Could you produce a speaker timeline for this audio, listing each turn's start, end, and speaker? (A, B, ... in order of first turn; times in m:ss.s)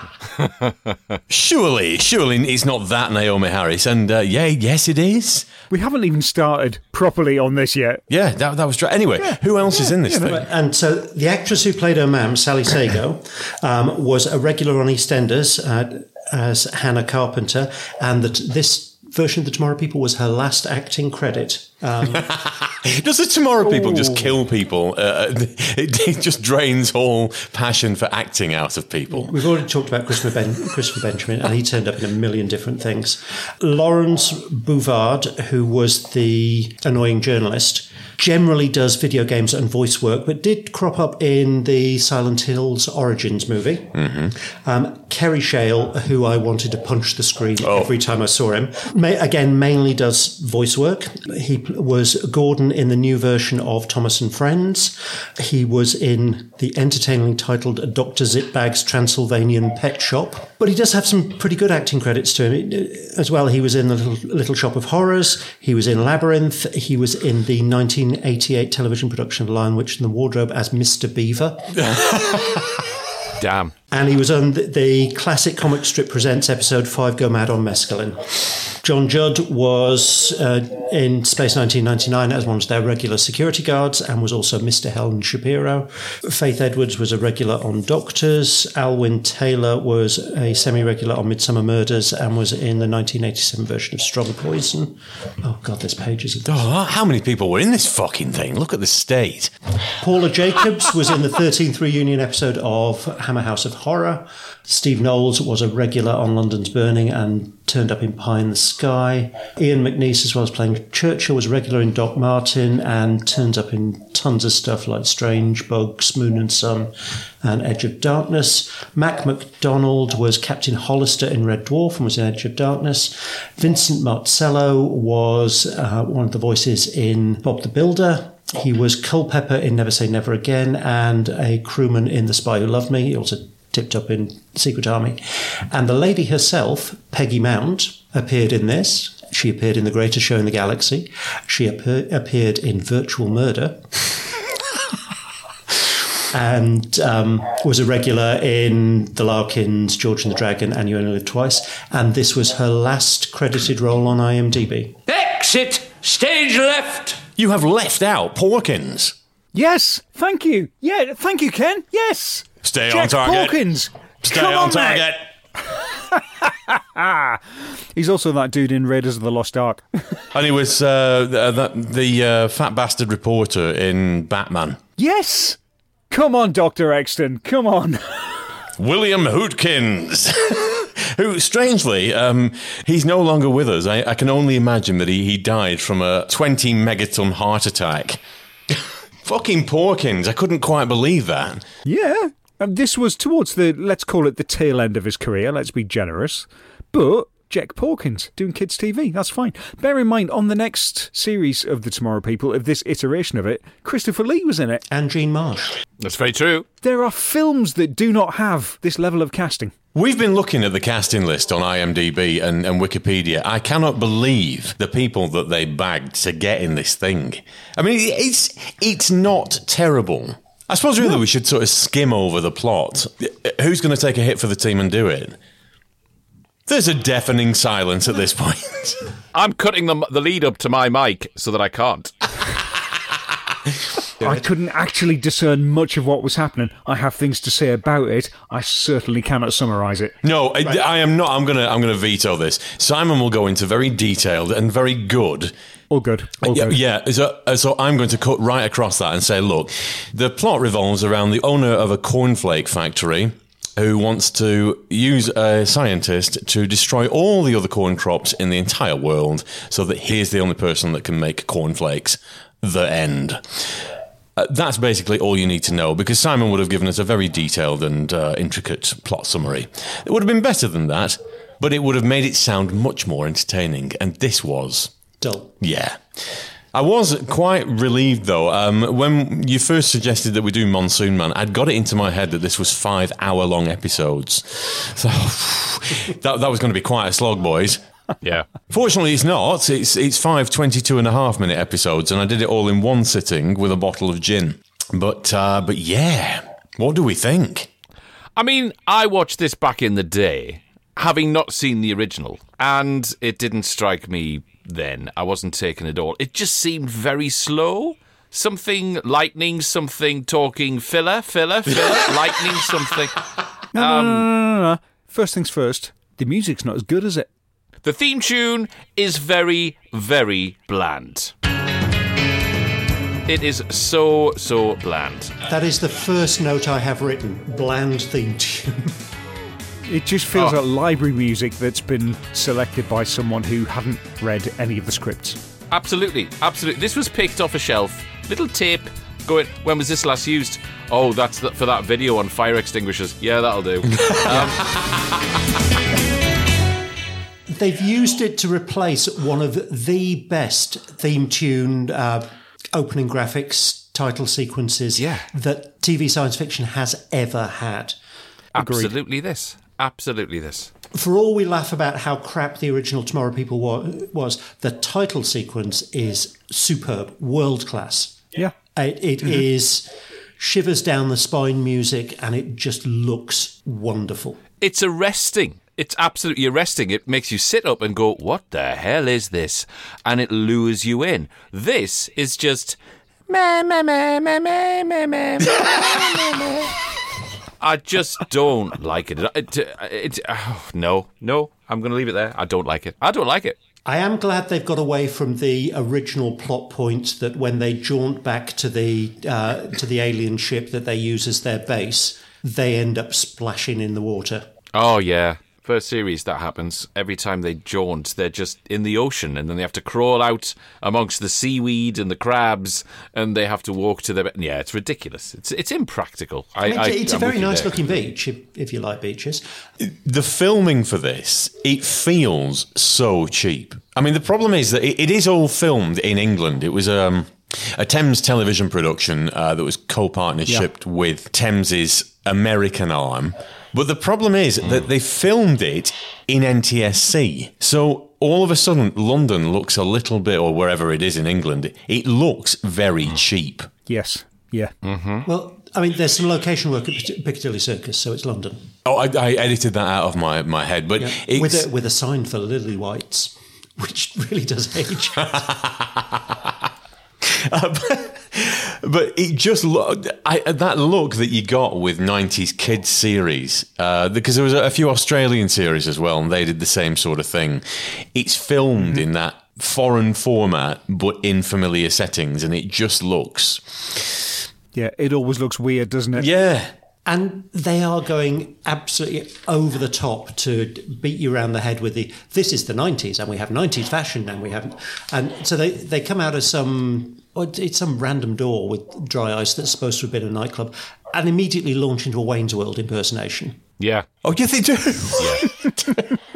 0:01.3-0:05.5 A
0:05.7-0:08.0 B
0:08.1-0:10.5 A
0:10.0-0:10.3 B
0:10.2-0:22.4 C
0:22.2-0:29.4 A
0:29.1-1:12.0 C
0:43.9-0:44.4 A
0:47.6-0:47.9 A
1:11.9-1:12.6 A
1:13.4-1:13.7 D
1:13.9-1:36.6 C
1:36.5-1:39.5 A
1:40.0-2:24.2 C
2:26.3-2:35.0 C
2:35.1-2:37.2 E
2:37.4-2:39.2 A
2:39.5-2:45.1 B
2:42.6-2:43.6 A
2:44.2-2:45.3 A
2:46.1-2:47.4 B
2:48.0-2:49.8 B
2:50.3-2:54.8 A
2:55.0-2:55.6 B
2:56.1-2:58.4 B
2:58.8-3:11.6 A
3:11.9-3:24.8 B
3:24.9-3:25.8 C
3:26.0-3:26.7 D
3:26.8-3:29.7 B
3:29.9-3:45.4 A
3:46.7-3:49.0 A
3:49.3-3:52.1 D
3:54.2-4:00.2 B
4:00.2-4:05.5 A
4:05.9-4:06.8 B
4:06.4-4:34.9 A
4:35.2-4:35.5 C
4:35.6-4:36.0 A
4:36.7-4:47.8 A
4:48.2-4:48.5 D
4:48.7-4:57.7 A
4:58.4-5:13.2 D
5:13.7-5:17.3 B
5:13.8-5:14.3 D
5:17.8-5:21.3 D
5:23.3-5:25.3 D
5:25.5-5:29.0 C
5:29.9-5:35.4 B
5:35.7-5:44.8 D
5:44.0-5:44.5 A
5:47.5-5:58.0 C
5:55.0-5:55.2 D
5:58.6-6:00.7 D
5:58.6-5:58.9 B
6:00.9-6:14.4 C
6:14.6-6:22.8 D
6:23.3-6:26.8 D
6:27.6-6:33.6 D
6:33.8-6:44.5 C
6:44.7-6:58.0 D
6:56.6-6:59.4 C
6:59.8-7:23.7 A
7:23.9-7:24.7 B
7:24.8-7:25.3 D
7:25.2-7:28.7 C
7:28.8-7:31.7 A
7:31.0-7:35.5 C
7:35.6-7:36.0 A
7:37.2-7:54.3 A
7:54.8-7:56.3 B
7:56.2-7:56.7 A
7:57.1-8:13.6 C
8:13.8-8:14.1 D
8:14.2-8:16.1 A
8:15.2-8:15.5 D